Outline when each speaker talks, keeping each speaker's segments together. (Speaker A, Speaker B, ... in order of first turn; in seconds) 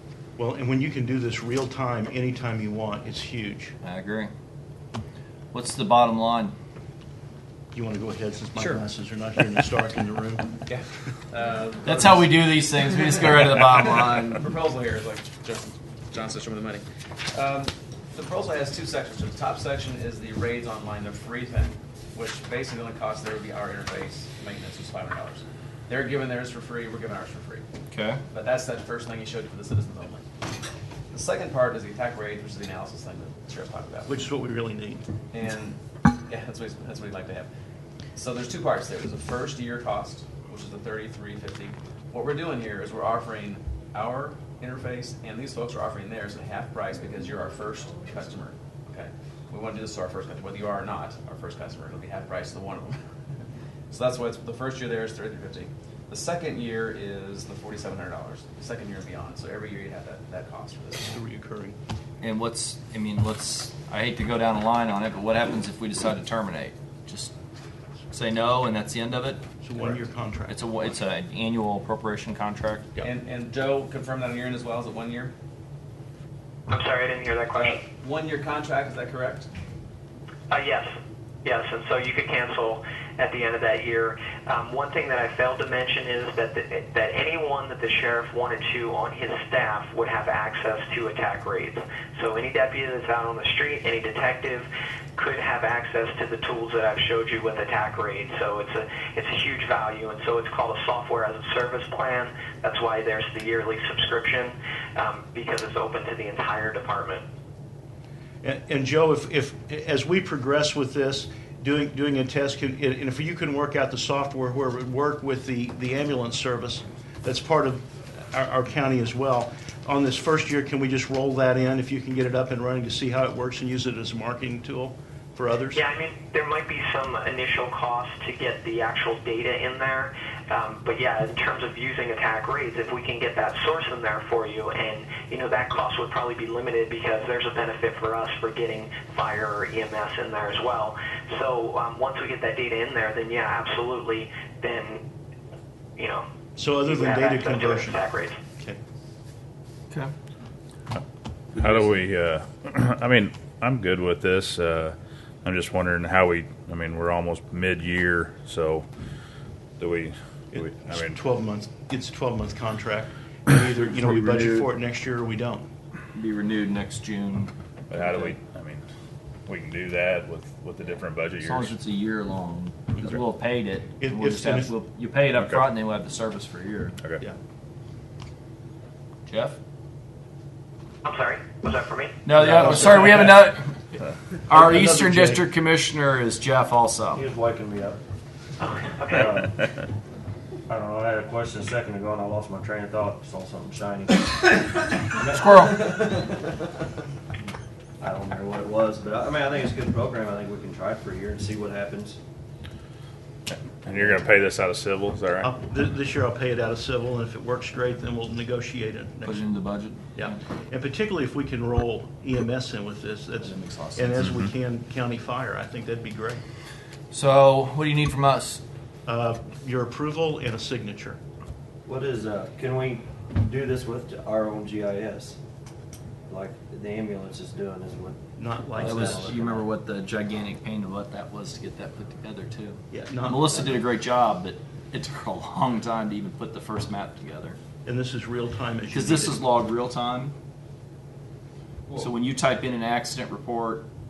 Speaker A: 0.4-3.7, 7.7-10.6, 34.0-35.0, 61.0-61.8, 69.6-70.6, 108.4-125.8, 146.6-148.8, 160.5-165.7, 174.0-174.7, 182.4-183.3, 184.5-185.4, 205.4-209.4, 210.1-216.4, 219.1-221.2, 228.4-229.4, 232.9-233.8, 237.8-239.4
Speaker B: 3.8-4.3, 5.5-6.5, 11.8-14.4, 27.9-28.2, 62.2-67.3, 68.1-69.4, 70.5-72.9, 163.8-164.6, 166.1-167.5, 171.4-176.9, 179.3-179.6, 182.2-183.7, 184.5-187.2, 195.3-196.0, 209.2-210.3, 213.4-214.2, 217.1-218.6, 228.8-237.6, 238.9-240.3, 241.9-243.9
Speaker C: 10.7-27.6, 28.3-30.2, 31.1-34.2, 35.3-35.8, 36.3-37.5, 38.1-53.0, 53.9-61.1, 73.0-75.3, 77.5-79.5
Speaker D: 76.7-77.8, 80.5-80.9, 81.4-107.2, 125.7-145.0, 146.0-146.2, 146.8-148.4, 181.0-182.2, 188.6-189.4
Speaker E: 151.5-158.8, 159.8-161.2, 167.9-168.8, 169.4-171.7, 175.3-175.7, 203.7-205.5
Speaker F: 187.1-188.0, 189.1-189.5, 190.7-196.4, 198.0-202.2, 221.8-225.4, 226.3-229.6